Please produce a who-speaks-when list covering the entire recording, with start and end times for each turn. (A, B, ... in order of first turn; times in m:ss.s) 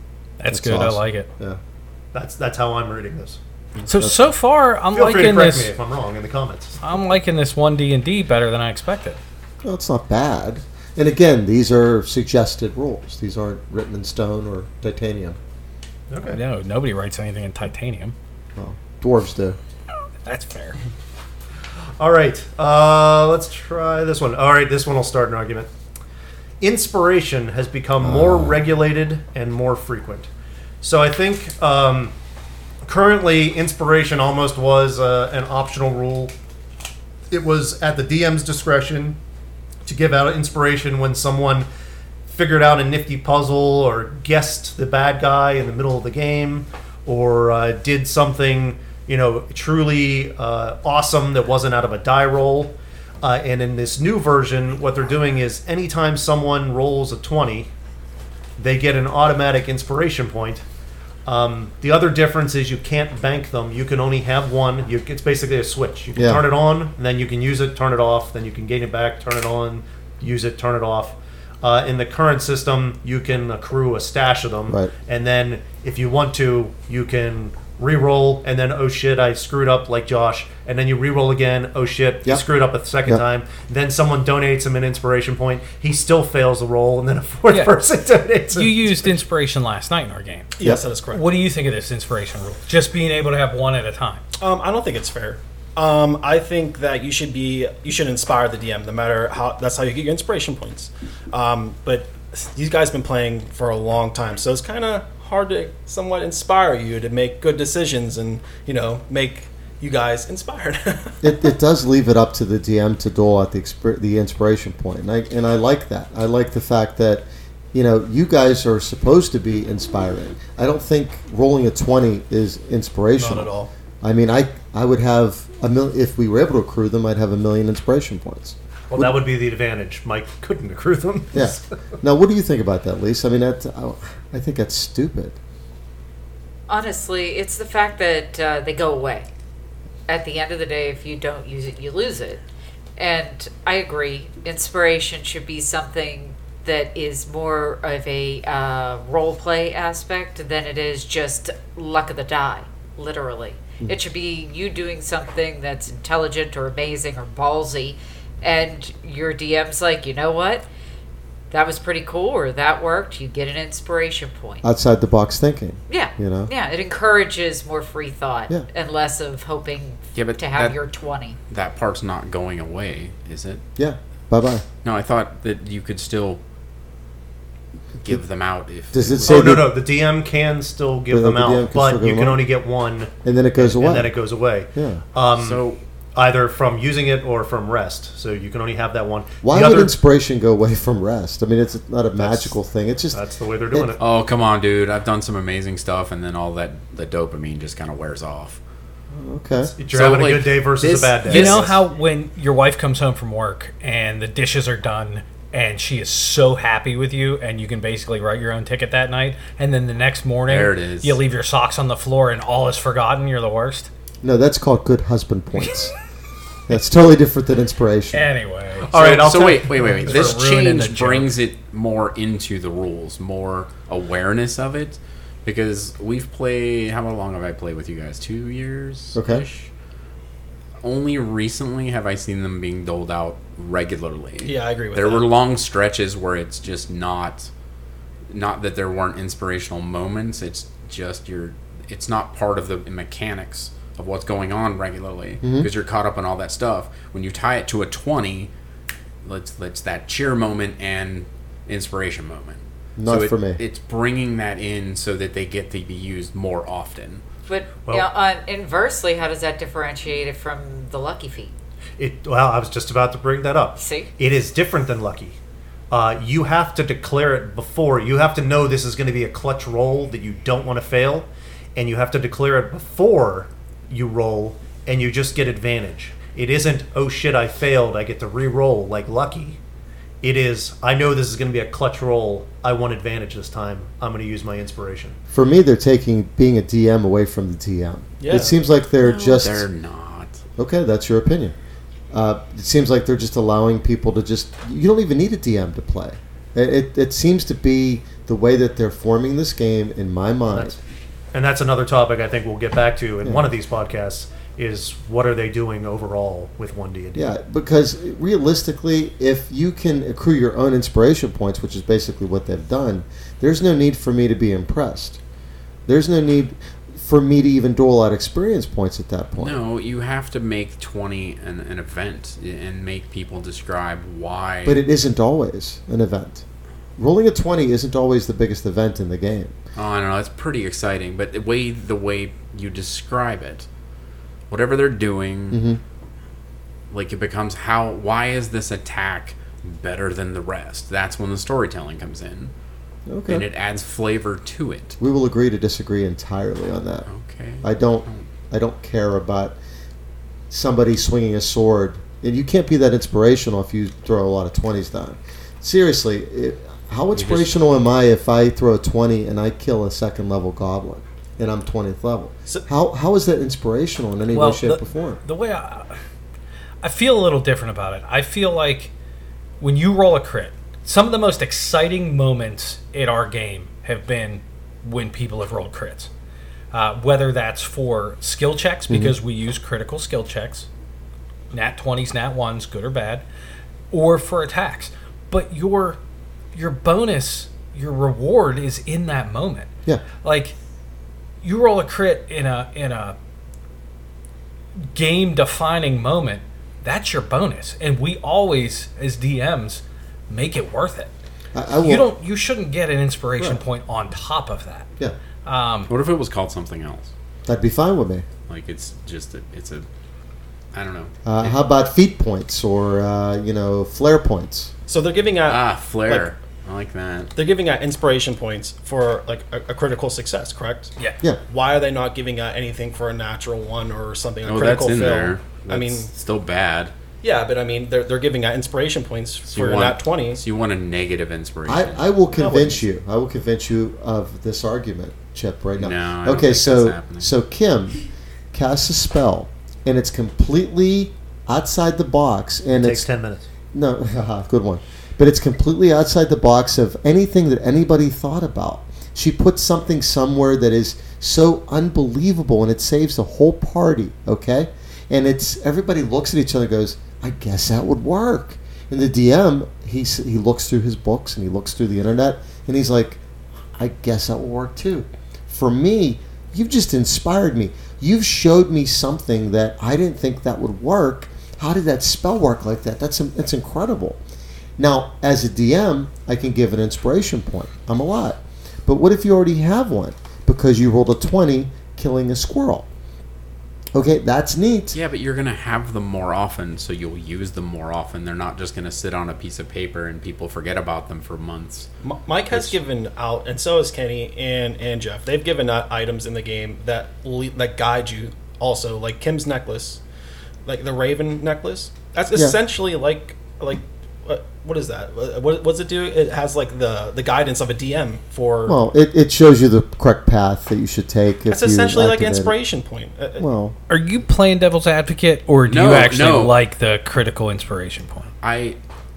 0:00.4-0:01.3 A
0:00.5-0:01.6 B
0:02.1-0:03.4 C
0:03.9-0:05.7 A
0:03.9-0:04.3 B
0:04.9-0:06.8 C
0:06.8-0:09.2 A
0:09.6-0:15.4 B
0:16.1-0:16.4 C
0:16.3-0:18.2 A
0:18.6-0:19.6 B
0:20.2-0:20.8 A
0:22.0-0:25.7 C
0:26.6-0:30.3 C
0:28.0-0:28.6 B
0:30.8-0:32.1 C
0:32.8-0:36.3 C
0:37.3-0:39.2 C
0:39.8-0:41.7 C
0:42.3-0:57.7 C
0:58.6-1:00.6 C
1:01.3-1:29.1 C
1:06.2-1:06.4 B
1:28.5-1:34.2 A
1:30.6-1:31.3 D
1:34.4-1:51.2 D
1:51.2-2:03.5 B
2:03.2-2:03.7 D
2:04.0-2:09.1 B
2:08.9-2:11.7 C
2:11.3-2:15.4 B
2:16.7-2:19.3 E
2:20.1-2:22.4 E
2:23.0-2:40.7 E
2:41.5-2:44.6 E
2:44.6-2:46.5 B
2:45.9-2:51.4 E
2:50.1-2:50.8 F
2:51.5-2:53.6 F
2:53.8-2:54.6 B
2:54.8-2:56.4 F
2:58.0-2:59.6 F
2:58.9-2:59.7 B
2:59.3-3:05.6 C
3:01.1-3:02.4 B
3:03.2-3:04.1 B
3:04.8-3:05.0 B
3:05.4-3:05.8 F
3:06.2-3:09.9 C
3:09.4-3:13.2 B
3:12.2-3:12.5 C
3:13.1-3:14.0 C
3:14.0-3:18.6 F
3:19.1-3:19.7 B
3:19.8-3:21.8 C
3:19.9-3:21.8 F
3:21.3-3:33.9 A
3:30.5-3:31.2 F
3:34.2-3:35.9 B
3:36.7-3:38.3 B
3:38.1-3:39.0 A
3:38.9-3:40.4 C
3:38.9-3:49.7 F
3:40.0-3:41.3 A
3:49.2-3:49.4 B
3:50.8-3:57.5 F
3:54.4-3:55.3 D
3:58.3-4:08.5 F
4:05.4-4:05.7 B
4:09.2-4:17.2 F
4:13.0-4:13.6 B
4:17.5-4:21.5 E
4:22.0-4:25.4 C
4:23.8-4:24.1 E
4:25.9-4:39.6 C
4:40.2-4:45.2 C
4:45.3-4:49.7 B
4:48.2-4:48.6 D
4:49.0-4:50.4 F
4:50.6-4:51.6 B
4:52.1-5:00.8 B
5:00.5-5:00.8 C
5:01.3-5:07.3 C
5:07.2-5:15.2 B
5:15.9-5:19.6 B
5:19.4-5:24.8 F
5:24.6-5:26.4 B
5:27.0-5:29.5 B
5:29.8-5:33.7 F
5:34.5-5:35.6 F
5:35.5-5:35.8 B
5:36.9-5:42.5 F
5:43.1-5:43.5 B
5:43.3-5:45.0 F
5:45.0-5:47.1 B
5:47.1-5:48.3 F
5:47.6-5:49.6 B
5:50.5-6:05.2 B
5:57.1-5:57.6 F
6:04.3-6:06.0 A
6:06.8-6:08.9 A
6:09.6-6:16.1 A
6:16.7-6:20.7 A
6:18.9-6:19.2 B
6:21.5-6:23.2 A
6:23.9-6:26.0 A
6:26.5-6:29.7 A
6:30.2-6:30.6 A
6:31.4-6:33.2 A
6:34.9-6:41.1 A
6:41.5-6:42.1 B
6:41.8-6:44.9 A
6:45.4-6:45.9 A
6:45.9-6:47.1 F
6:47.5-6:48.3 B
6:48.5-6:49.8 F
6:50.7-6:51.6 F
6:51.2-6:54.7 B
6:54.9-6:56.3 D
6:55.5-6:57.3 F
6:57.3-7:00.9 D
7:01.5-7:06.1 D
7:04.4-7:06.9 F
7:07.2-7:10.4 D
7:09.5-7:12.1 F
7:11.7-7:18.0 B
7:12.3-7:12.8 D
7:15.8-7:17.3 F
7:18.5-7:23.1 B
7:22.7-7:23.5 C
7:23.7-7:43.2 B
7:43.8-7:54.2 B
7:54.8-8:02.9 B
8:03.9-8:05.0 B
8:04.9-8:11.9 F
8:12.0-8:20.0 D
8:12.5-8:12.8 F
8:20.6-8:28.8 D
8:28.7-8:32.6 B
8:31.5-8:33.5 D
8:33.4-8:33.8 B
8:33.9-8:38.3 A
8:35.7-8:36.6 F
8:38.4-8:38.8 F